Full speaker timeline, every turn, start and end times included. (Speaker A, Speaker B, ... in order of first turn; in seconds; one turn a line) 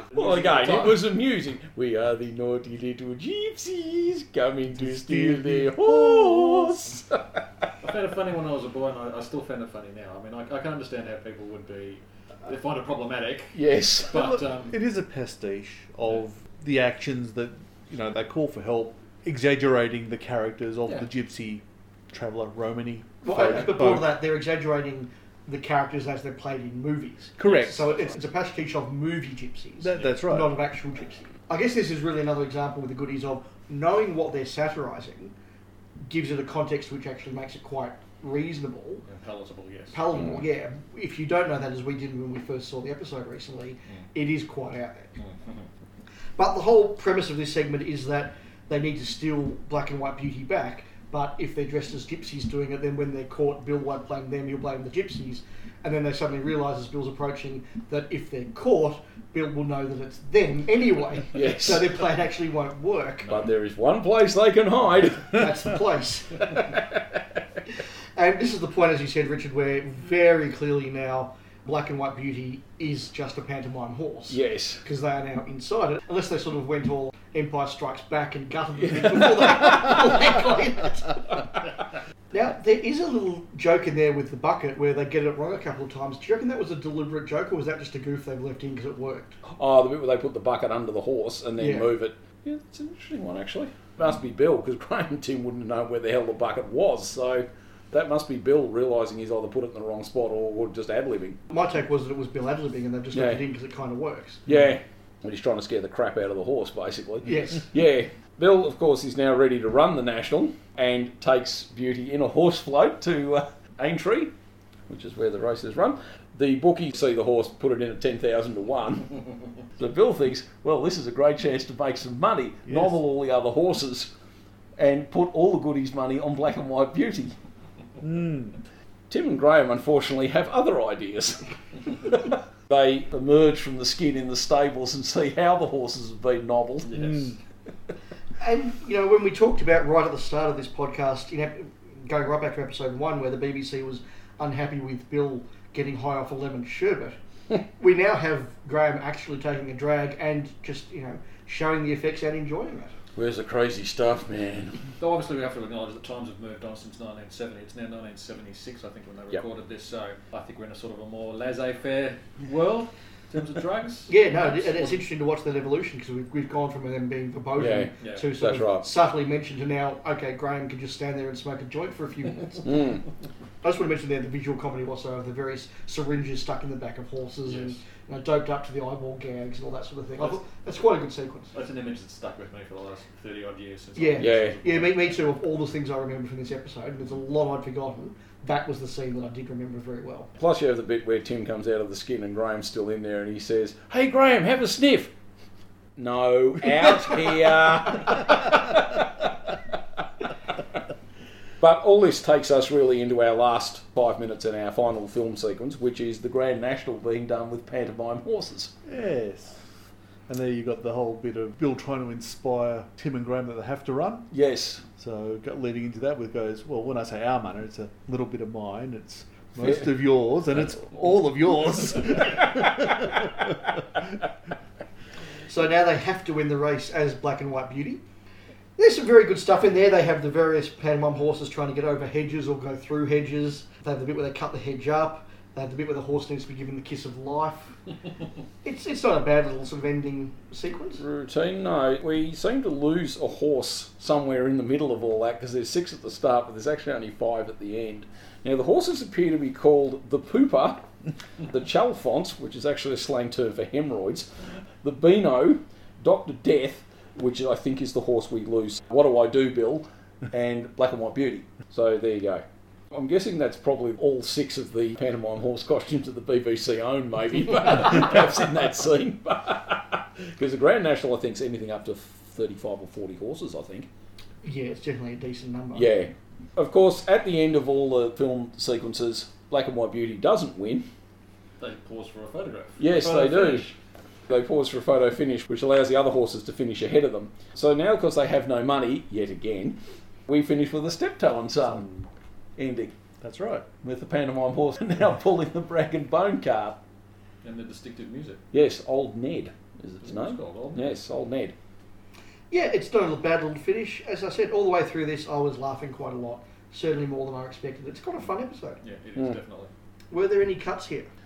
Speaker A: 0.1-1.0
Speaker B: 0.1-7.7
Speaker C: 4.8-6.8
Speaker A: 7.8-14.8
Speaker B: 13.5-14.3
Speaker C: 14.1-24.1
Speaker D: 23.2-35.3
Speaker C: 27.4-27.9
Speaker A: 27.4-28.0
Speaker C: 29.8-30.5
Speaker D: 36.1-39.1
Speaker A: 39.1-40.0
Speaker D: 39.9-45.1
Speaker A: 45.2-45.7
Speaker D: 46.4-63.3
Speaker B: 61.3-62.0
Speaker B: 63.3-65.5
Speaker D: 65.3-66.7
Speaker D: 68.2-81.4
Speaker B: 74.3-74.8
Speaker B: 78.9-79.9
Speaker D: 82.3-89.4
Speaker B: 89.4-101.4
Speaker D: 91.6-91.9
Speaker D: 101.5-104.4
Speaker B: 103.1-103.4
Speaker B: 104.5-114.3
Speaker D: 107.2-107.7
Speaker B: 114.9-119.2
Speaker B: 119.8-124.1
Speaker C: 122.7-123.0
Speaker B: 124.8-127.3
Speaker C: 128.0-128.6
Speaker B: 129.1-137.2
Speaker A: 136.8-137.3
Speaker C: 137.0-137.3
Speaker D: 138.4-147.2
Speaker D: 147.8-152.9
Speaker B: 153.2-154.9
Speaker A: 155.0-165.0
Speaker D: 164.1-172.9
Speaker B: 167.6-168.9
Speaker A: 168.0-168.2
Speaker B: 172.6-173.0
Speaker D: 173.6-181.5
Speaker A: 177.5-177.8
Speaker A: 181.5-185.2
Speaker D: 184.0-190.3
Speaker B: 184.2-184.6
Speaker B: 190.4-195.1
Speaker B: 196.0-199.1
Speaker B: 201.6-208.7
Speaker C: 208.9-209.6
Speaker C: 210.3-214.3
Speaker B: 214.3-214.8
Speaker C: 215.0-223.4
Speaker B: 219.6-219.9
Speaker D: 225.5-228.0
Speaker D: 228.8-237.8
Speaker D: 238.6-241.0
Speaker B: 241.0-250.9
Speaker B: 251.5-254.3
Speaker B: 254.8-273.9
Speaker D: 274.4-275.9
Speaker B: 275.7-280.9
Speaker A: 281.6-283.8
Speaker B: 282.8-283.7
Speaker B: 284.3-292.0
Speaker B: 292.6-292.9
Speaker C: 293.2-293.7
Speaker B: 293.8-296.8
Speaker A: 297.4-298.4
Speaker B: 298.5-301.6
Speaker A: 300.0-301.0
Speaker D: 302.5-308.8
Speaker A: 308.8-309.7
Speaker D: 310.1-311.1